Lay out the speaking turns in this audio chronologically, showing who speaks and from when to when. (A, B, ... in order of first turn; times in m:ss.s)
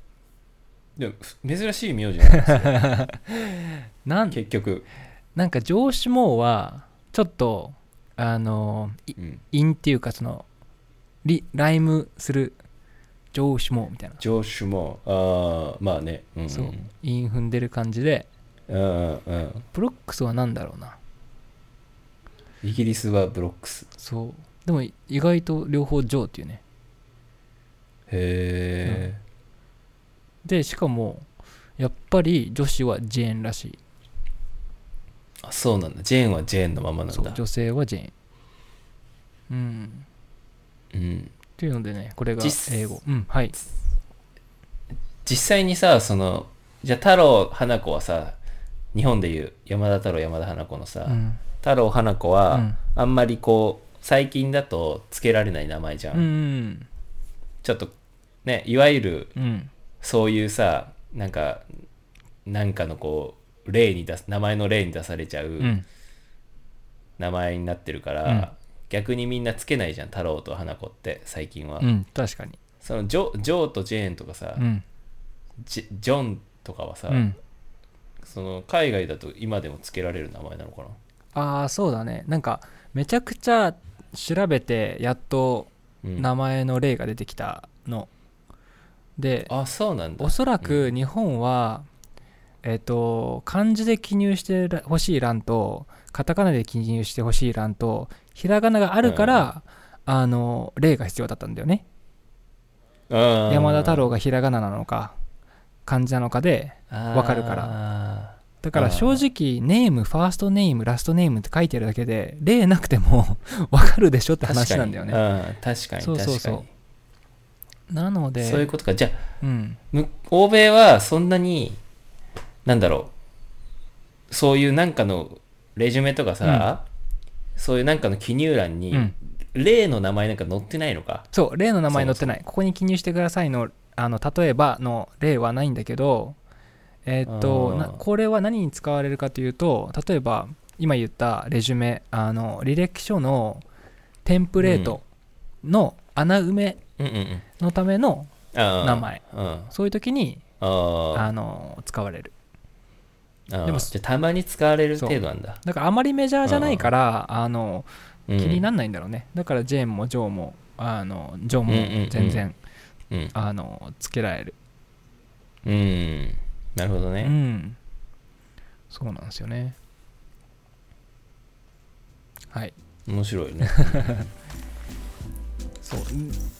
0:01.0-0:02.9 A
0:02.3-0:04.4 B
0:04.3-0:04.8 A
0:05.3-0:10.4 B
0:09.2-0:09.4 A
0:11.2-0:12.6 B
0:13.3-0:14.2 B
0:14.2-0:16.9 A
0:16.5-0:18.3 B
0:18.7-0:19.6 A
0:19.7-0:21.0 B
0:22.6-0:23.9 A
0:24.0-0:26.6 B
0:28.1-0:29.2 A
0:30.4-0:31.2 B
0:31.8-0:33.8 B
0:35.4-0:37.4 A
0:37.1-0:38.1 B
0:39.5-0:40.0 B
0:40.9-0:41.3 A
0:41.6-0:43.6 B
0:42.4-0:43.0 A
0:45.2-0:48.4 A
0:48.9-0:56.3 A
0:51.1-0:51.4 B
0:52.5-0:52.8 B
0:56.1-0:56.9 B
0:57.6-0:57.9 A
0:58.4-0:59.3 A
0:59.4-0:59.7 B
1:00.0-1:01.7 A
1:02.4-1:05.8 A
1:05.6-1:05.8 B
1:07.2-1:11.9 A
1:11.8-1:12.6 B
1:12.8-1:14.6 A
1:14.6-1:14.8 B
1:15.6-1:17.2 A
1:17.1-1:17.4 B
1:18.2-1:21.0 A
1:21.3-1:28.1 B
1:26.0-1:26.3 A
1:29.2-1:29.5 B
1:29.5-1:30.9 A
1:30.2-1:31.8 B
1:32.6-1:41.8 B
1:39.0-1:39.5 A
1:43.1-1:44.1 A
1:43.5-1:45.1 B
1:45.8-1:47.8 B
1:46.9-1:49.2 A
1:48.6-1:55.2 B
1:54.4-1:56.6 A
1:56.0-1:56.7 B
1:57.9-1:58.7 B
1:58.4-1:59.2 A
1:59.4-1:59.8 B
1:59.9-2:01.8 A
2:02.6-2:03.1 A
2:04.3-2:06.8 A
2:06.4-2:06.7 B
2:07.6-2:11.3 A
2:11.3-2:16.4 B
2:11.9-2:12.4 A
2:17.0-2:23.6 B
2:17.2-2:18.0 A
2:24.2-2:25.0 B
2:24.6-2:25.0 A
2:25.6-2:26.8 B
2:27.0-2:27.4 A
2:27.6-2:30.4 B
2:28.5-2:29.7 A
2:30.6-2:31.3 A
2:31.1-2:32.3 B
2:33.5-2:35.6 A
2:33.6-2:33.9 B
2:35.0-2:42.6 B
2:36.4-2:36.9 A
2:38.3-2:38.6 A
2:41.7-2:42.4 A
2:43.3-2:44.5 B
2:45.6-2:47.3 A
2:47.2-2:47.8 B
2:48.9-2:49.8 B
2:53.1-2:54.3 A
2:53.7-2:54.0 B
2:55.8-2:56.4 B